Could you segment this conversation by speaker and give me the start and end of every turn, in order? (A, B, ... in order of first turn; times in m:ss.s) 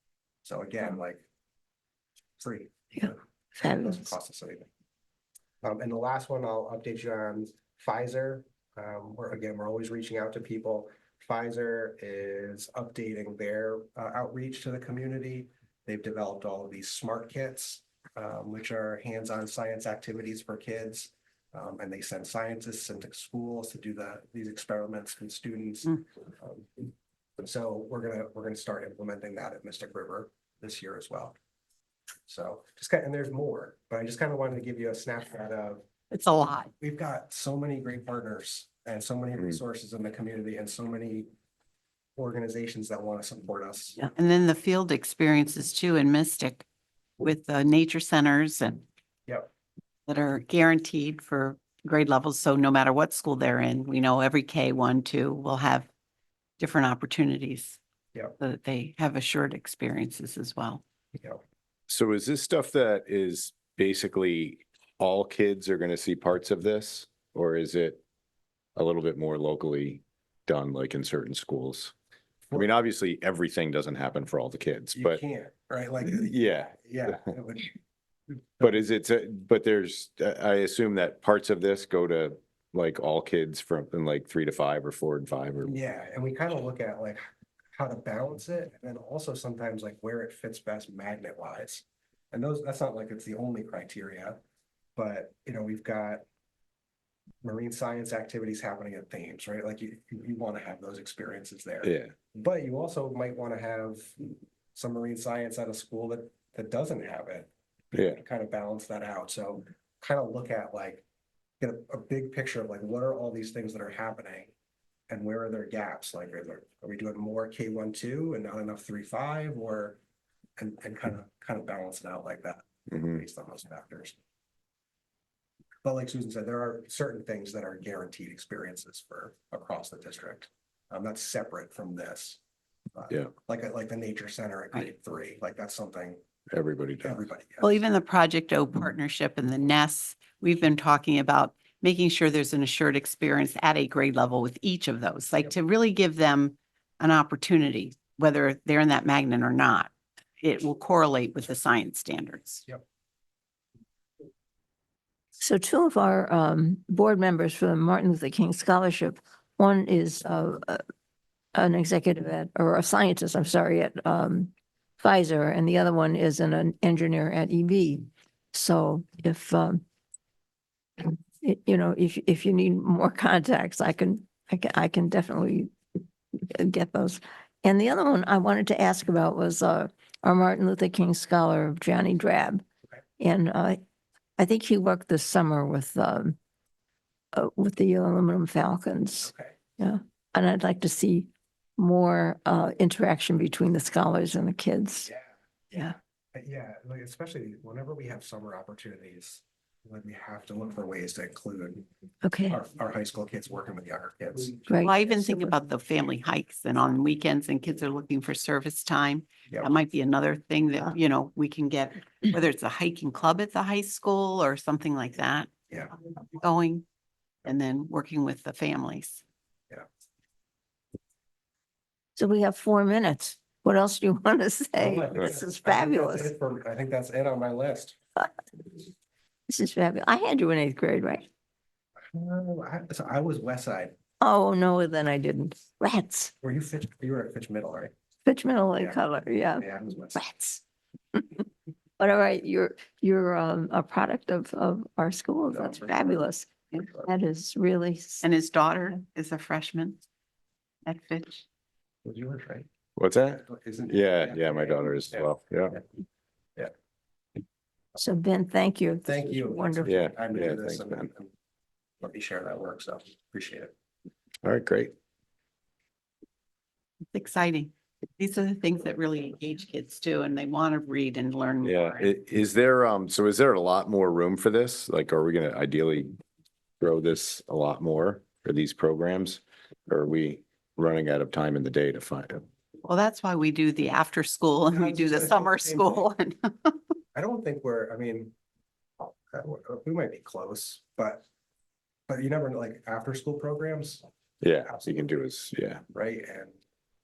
0:00.4-0:01.2 A
0:02.4-0:04.7 A
0:03.0-0:04.1 B
0:05.6-0:31.4 A
0:32.3-0:35.9 A
0:36.1-0:36.7 C
0:36.8-0:41.3 A
0:42.2-0:44.0 A
0:44.0-0:46.6 C
0:47.2-0:48.8 C
0:50.1-0:55.9 C
0:56.6-0:57.8 C
0:58.4-1:00.8 C
1:01.2-1:01.4 A
1:01.9-1:08.0 D
1:08.8-1:11.9 D
1:12.6-1:15.2 D
1:14.9-1:17.8 A
1:16.1-1:17.3 D
1:18.6-1:25.8 D
1:25.6-1:34.4 A
1:35.0-1:36.2 A
1:37.4-1:51.0 A
1:41.8-1:42.1 D
1:47.9-1:48.2 D
1:51.6-1:54.5 A
1:55.1-2:00.0 A
2:00.6-2:04.2 A
2:05.8-2:12.4 A
2:13.0-2:16.2 A
2:16.5-2:17.3 D
2:17.0-2:17.8 A
2:17.6-2:32.6 C
2:35.4-2:40.8 B
2:41.5-2:49.8 B
2:51.0-2:55.7 B
2:56.4-3:02.6 B
3:03.2-3:03.8 B
3:04.4-3:06.4 B
3:07.3-3:15.1 B
3:09.2-3:09.6 A
3:15.0-3:21.9 A
3:22.2-3:22.6 B
3:22.5-3:25.0 A
3:24.7-3:25.5 B
3:24.8-3:35.5 C
3:36.4-3:36.8 C
3:37.4-3:39.2 C
3:42.2-3:46.3 B
3:44.8-3:48.0 A
3:49.5-3:51.3 B
3:52.1-3:54.0 A
3:54.2-3:56.3 B
3:56.4-3:57.9 A
3:58.2-4:00.6 B
3:58.8-3:59.0 A
3:59.6-4:00.2 A
4:02.0-4:08.2 B
4:05.5-4:06.3 A
4:08.2-4:10.0 C
4:10.9-4:11.4 C
4:12.0-4:12.7 A
4:13.0-4:15.8 D
4:13.4-4:15.8 A
4:18.0-4:20.0 B
4:19.0-4:21.3 A
4:19.8-4:21.1 D
4:22.0-4:23.7 A
4:24.4-4:24.9 D
4:27.1-4:32.1 C
4:31.6-4:36.2 D
4:36.8-4:42.5 D
4:42.8-4:46.8 C
4:44.7-4:46.1 A
4:47.1-4:48.3 A
4:49.3-4:51.2 A
4:52.1-4:54.0 A
4:54.4-4:55.8 D
4:54.6-4:55.2 A
4:55.9-4:56.6 A